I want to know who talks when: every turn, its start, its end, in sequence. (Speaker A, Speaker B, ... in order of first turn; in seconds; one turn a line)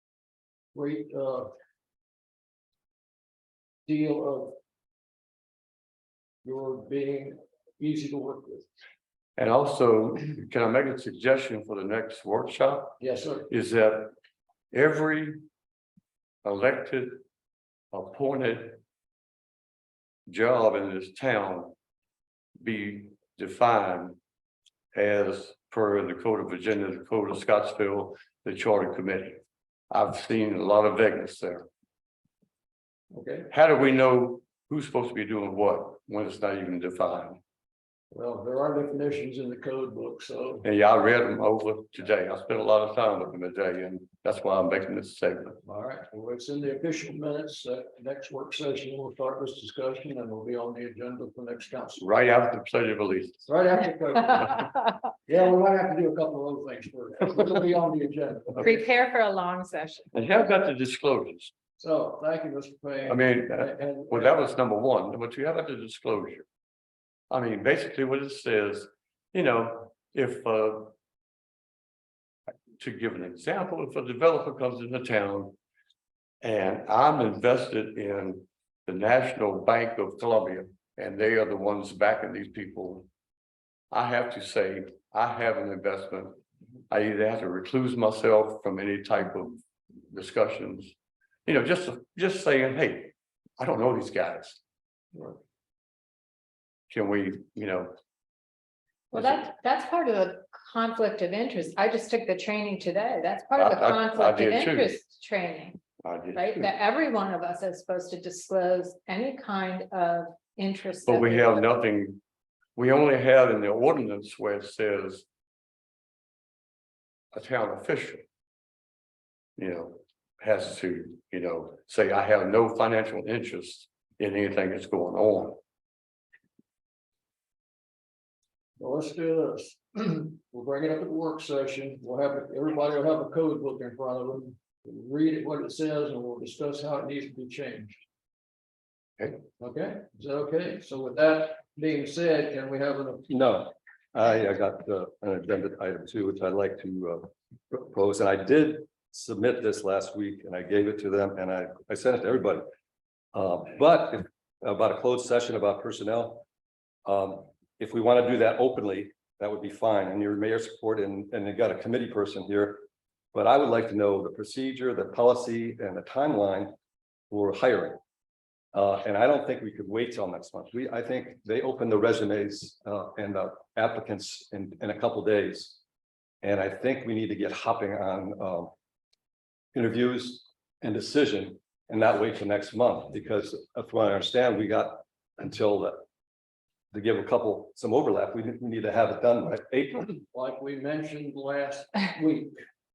Speaker A: 0.7-1.5
Speaker A: 3.9-4.6
Speaker A: 6.4-8.7
Speaker B: 9.4-13.0
Speaker A: 13.0-13.5
Speaker B: 13.5-14.2
Speaker B: 14.7-15.4
Speaker B: 16.4-17.2
Speaker B: 17.9-18.8
Speaker B: 20.3-21.7
Speaker B: 22.6-24.2
Speaker B: 24.9-29.4
Speaker B: 29.9-31.7
Speaker A: 33.1-33.5
Speaker B: 33.5-37.4
Speaker A: 38.1-40.7
Speaker B: 40.6-45.6
Speaker A: 45.6-52.1
Speaker B: 52.0-53.4
Speaker A: 53.5-54.7
Speaker A: 55.2-58.9
Speaker C: 58.6-60.1
Speaker B: 60.1-61.5
Speaker A: 61.8-64.5
Speaker B: 63.1-66.5
Speaker B: 67.3-70.9
Speaker B: 72.8-75.6
Speaker B: 76.4-83.1
Speaker B: 83.9-86.4
Speaker B: 86.9-90.9
Speaker B: 91.5-94.6
Speaker A: 95.1-95.4
Speaker B: 96.9-97.9
Speaker C: 99.1-105.8
Speaker B: 103.6-105.0
Speaker B: 106.0-106.7
Speaker C: 106.3-111.6
Speaker B: 111.1-112.2
Speaker B: 112.8-115.3
Speaker B: 117.3-118.2
Speaker B: 119.6-125.6
Speaker A: 128.8-138.0
Speaker A: 139.6-143.3
Speaker D: 143.3-152.7
Speaker D: 153.3-156.4
Speaker D: 157.1-166.7
Speaker D: 167.3-168.0
Speaker D: 168.7-175.8
Speaker D: 176.4-178.7
Speaker D: 179.7-186.0
Speaker D: 186.9-190.1
Speaker A: 190.3-192.6